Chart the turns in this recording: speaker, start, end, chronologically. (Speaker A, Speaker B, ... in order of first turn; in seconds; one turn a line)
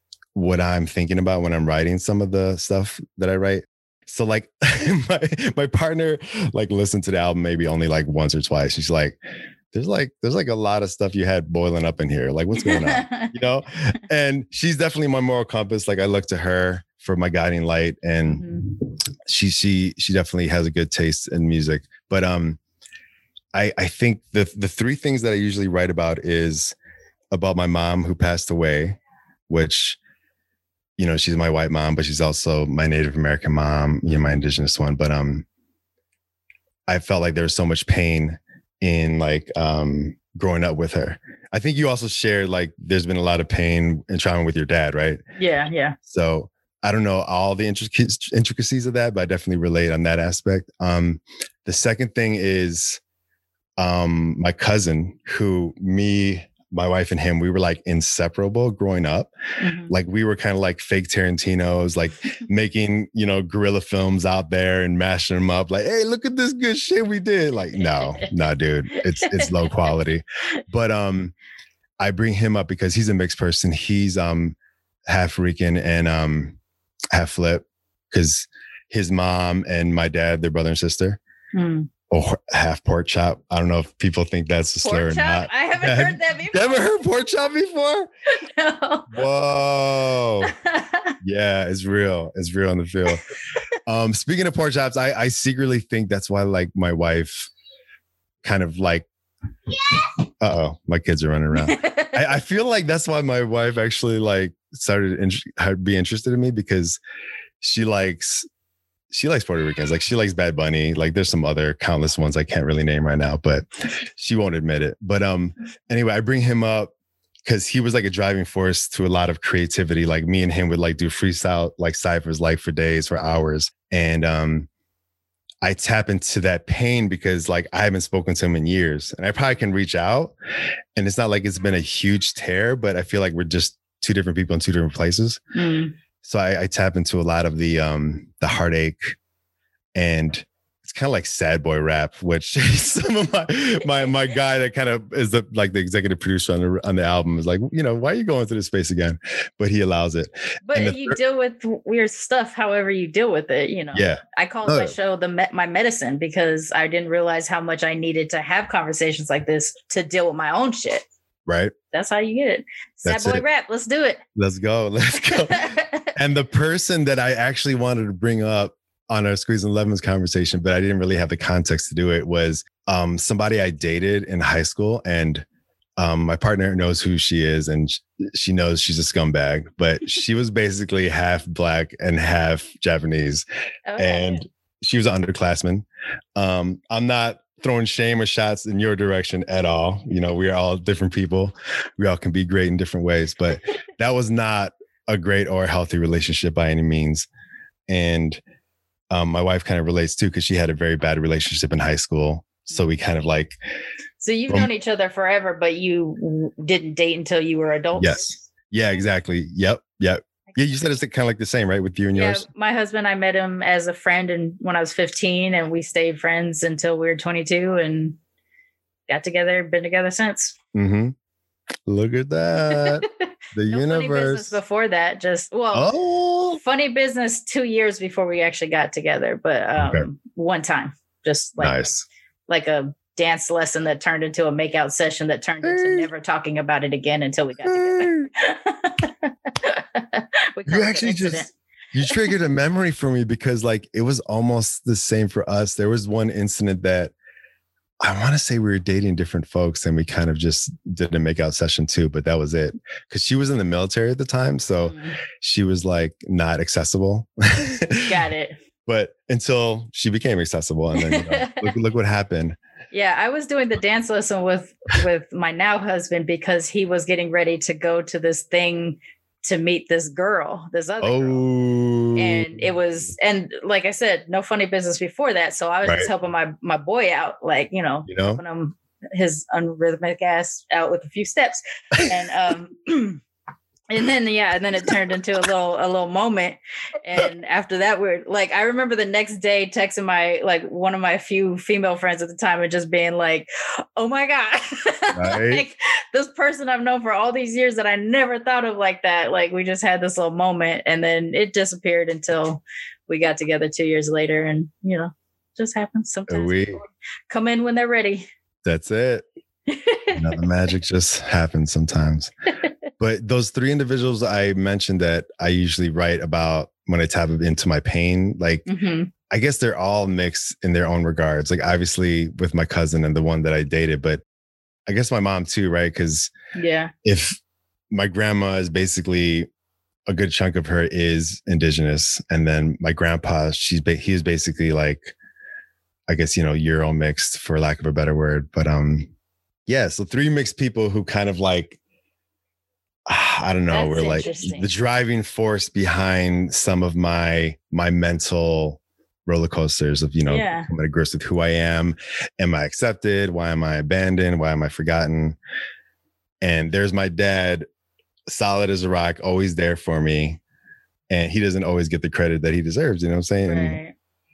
Speaker A: 0.3-9.2
Speaker A: 9.7-18.4
Speaker B: 12.6-13.3
Speaker B: 18.2-18.7
Speaker A: 19.3-22.6
Speaker A: 23.5-26.8
Speaker A: 27.3-30.0
Speaker A: 31.0-35.5
Speaker A: 36.9-45.2
Speaker B: 45.4-46.0
Speaker A: 46.0-53.0
Speaker A: 53.8-59.3
Speaker B: 59.6-59.9
Speaker A: 59.9-71.3
Speaker B: 68.0-68.3
Speaker B: 69.2-69.5
Speaker A: 72.0-74.6
Speaker A: 75.1-76.6
Speaker A: 77.1-81.2
Speaker B: 81.5-81.9
Speaker A: 82.1-88.1
Speaker B: 84.8-87.0
Speaker B: 88.4-89.2
Speaker A: 89.1-90.5
Speaker B: 90.5-91.2
Speaker A: 91.2-93.2
Speaker A: 93.9-97.5
Speaker A: 98.4-99.1
Speaker A: 100.4-107.0
Speaker B: 101.5-102.2
Speaker A: 107.6-108.5
Speaker A: 109.1-116.9
Speaker A: 117.5-124.7
Speaker A: 125.6-130.4
Speaker A: 131.0-135.4
Speaker B: 135.6-135.9
Speaker A: 136.2-139.1
Speaker A: 139.9-151.2
Speaker B: 150.7-161.1
Speaker A: 153.9-154.9
Speaker A: 161.5-161.7
Speaker B: 161.9-164.2
Speaker A: 163.1-163.4
Speaker A: 164.4-175.4
Speaker B: 165.3-166.1
Speaker A: 176.0-183.4
Speaker B: 183.9-184.4
Speaker A: 184.0-185.8
Speaker A: 186.4-197.3
Speaker A: 197.9-198.4
Speaker A: 199.1-203.6
Speaker B: 204.2-208.4
Speaker A: 208.0-212.5
Speaker B: 212.1-218.2
Speaker B: 219.1-220.6
Speaker A: 220.7-221.2
Speaker A: 221.9-224.6
Speaker B: 222.8-225.9
Speaker A: 225.7-226.6
Speaker B: 226.6-231.8
Speaker A: 229.8-230.1
Speaker A: 231.6-232.1
Speaker B: 232.5-241.5
Speaker A: 235.6-236.1
Speaker A: 237.7-238.3
Speaker A: 240.7-247.1
Speaker A: 248.0-258.1
Speaker B: 254.8-255.2
Speaker B: 258.1-258.6
Speaker A: 258.9-262.6
Speaker B: 261.0-261.7
Speaker B: 262.9-271.4
Speaker A: 271.0-272.6
Speaker B: 272.2-283.2
Speaker A: 278.1-278.4
Speaker B: 283.9-308.3
Speaker A: 295.1-295.6
Speaker A: 306.3-306.8
Speaker A: 308.6-309.2
Speaker B: 309.7-310.4
Speaker A: 310.1-312.3
Speaker A: 313.0-318.7
Speaker B: 318.7-319.1
Speaker A: 319.3-324.2
Speaker A: 324.9-326.3
Speaker B: 326.6-326.9
Speaker A: 327.0-327.4
Speaker A: 327.9-329.5
Speaker A: 330.1-335.1
Speaker A: 336.1-339.1
Speaker A: 339.7-341.8
Speaker A: 343.1-355.4
Speaker B: 343.7-344.7
Speaker B: 350.3-350.7
Speaker A: 356.4-357.7
Speaker A: 358.3-360.4
Speaker A: 361.1-363.8
Speaker B: 363.4-363.9